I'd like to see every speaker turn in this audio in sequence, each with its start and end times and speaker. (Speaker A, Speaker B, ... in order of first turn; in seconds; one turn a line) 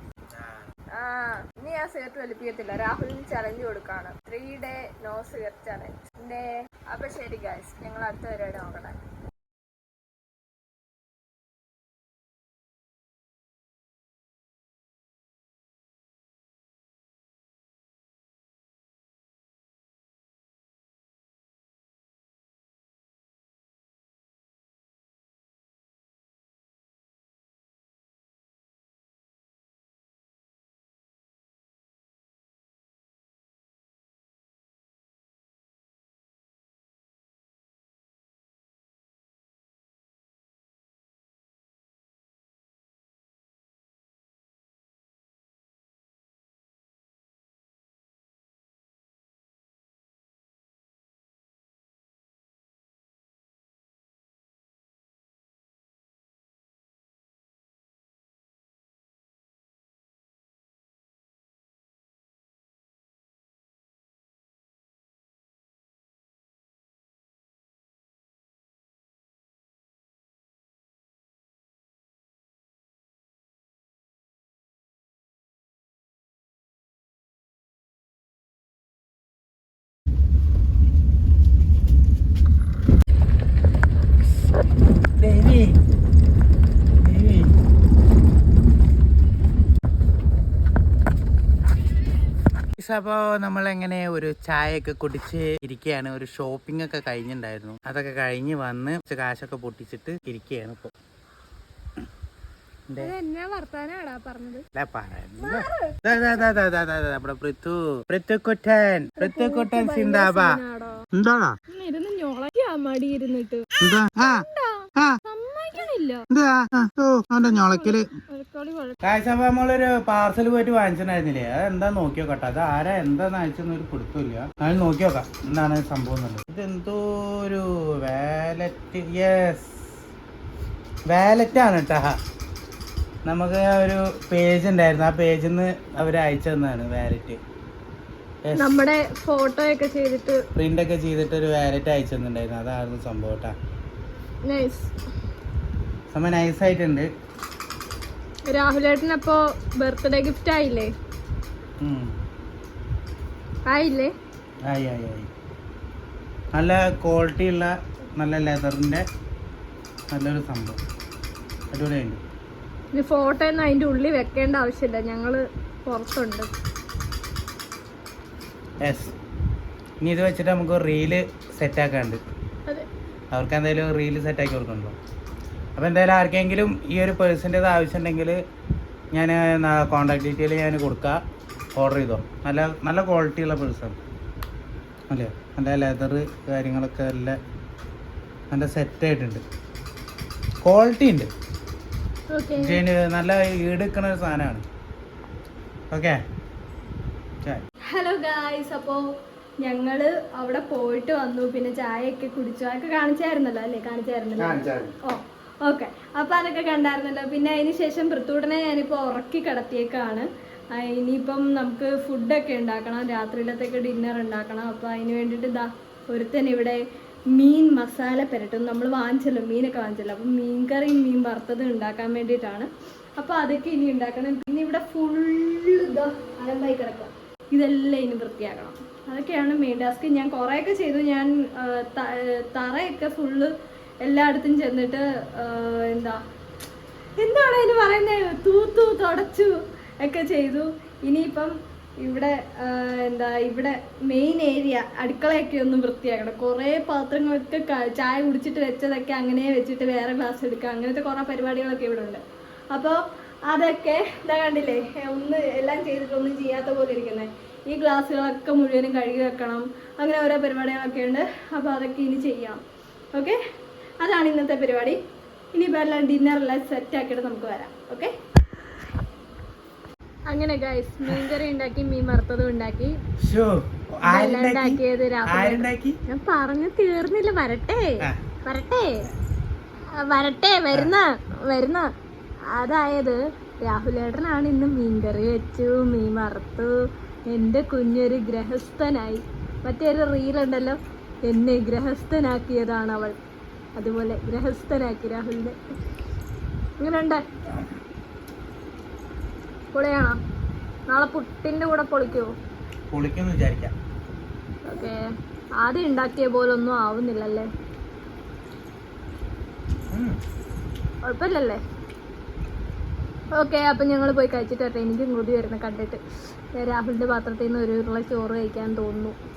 Speaker A: 0.3-0.7
Speaker B: 0.9-9.0
Speaker A: 85.2-85.8
Speaker A: 87.0-87.5
Speaker A: 92.8-100.9
Speaker B: 103.0-104.6
Speaker A: 104.8-110.6
Speaker B: 105.4-106.0
Speaker B: 109.2-111.0
Speaker A: 111.2-111.6
Speaker B: 111.7-113.6
Speaker A: 113.8-114.5
Speaker B: 114.2-116.3
Speaker A: 116.3-118.1
Speaker B: 117.6-119.0
Speaker A: 119.0-129.9
Speaker A: 131.1-132.1
Speaker A: 133.3-137.4
Speaker A: 138.4-138.8
Speaker B: 138.6-140.4
Speaker A: 140.6-143.5
Speaker B: 144.5-144.9
Speaker A: 146.1-147.1
Speaker B: 148.5-150.9
Speaker A: 151.8-152.1
Speaker B: 153.7-154.1
Speaker A: 154.7-155.3
Speaker A: 156.6-159.1
Speaker A: 160.1-160.8
Speaker A: 161.7-162.2
Speaker B: 162.9-166.5
Speaker A: 168.8-169.1
Speaker A: 170.0-172.2
Speaker A: 173.3-175.0
Speaker A: 175.8-178.4
Speaker A: 179.1-181.2
Speaker A: 181.8-183.9
Speaker A: 185.1-187.4
Speaker A: 188.5-189.4
Speaker A: 190.6-191.3
Speaker B: 192.3-192.8
Speaker A: 192.6-194.7
Speaker A: 195.9-196.2
Speaker B: 197.9-199.0
Speaker B: 199.6-216.8
Speaker A: 204.4-205.0
Speaker B: 217.3-233.5
Speaker B: 234.1-236.2
Speaker B: 237.2-239.5
Speaker B: 240.0-252.2
Speaker B: 253.5-262.6
Speaker B: 264.0-265.0
Speaker B: 265.6-268.1
Speaker B: 270.3-273.0
Speaker A: 273.2-276.0
Speaker B: 274.1-279.0
Speaker B: 280.0-281.9
Speaker B: 282.5-286.7
Speaker B: 287.3-293.2
Speaker B: 293.8-295.6
Speaker B: 296.8-297.2
Speaker B: 299.7-300.2
Speaker B: 300.9-302.3
Speaker A: 302.9-303.7
Speaker B: 304.7-305.0
Speaker B: 305.6-307.5
Speaker B: 311.1-311.6
Speaker B: 313.4-316.0
Speaker B: 316.6-319.1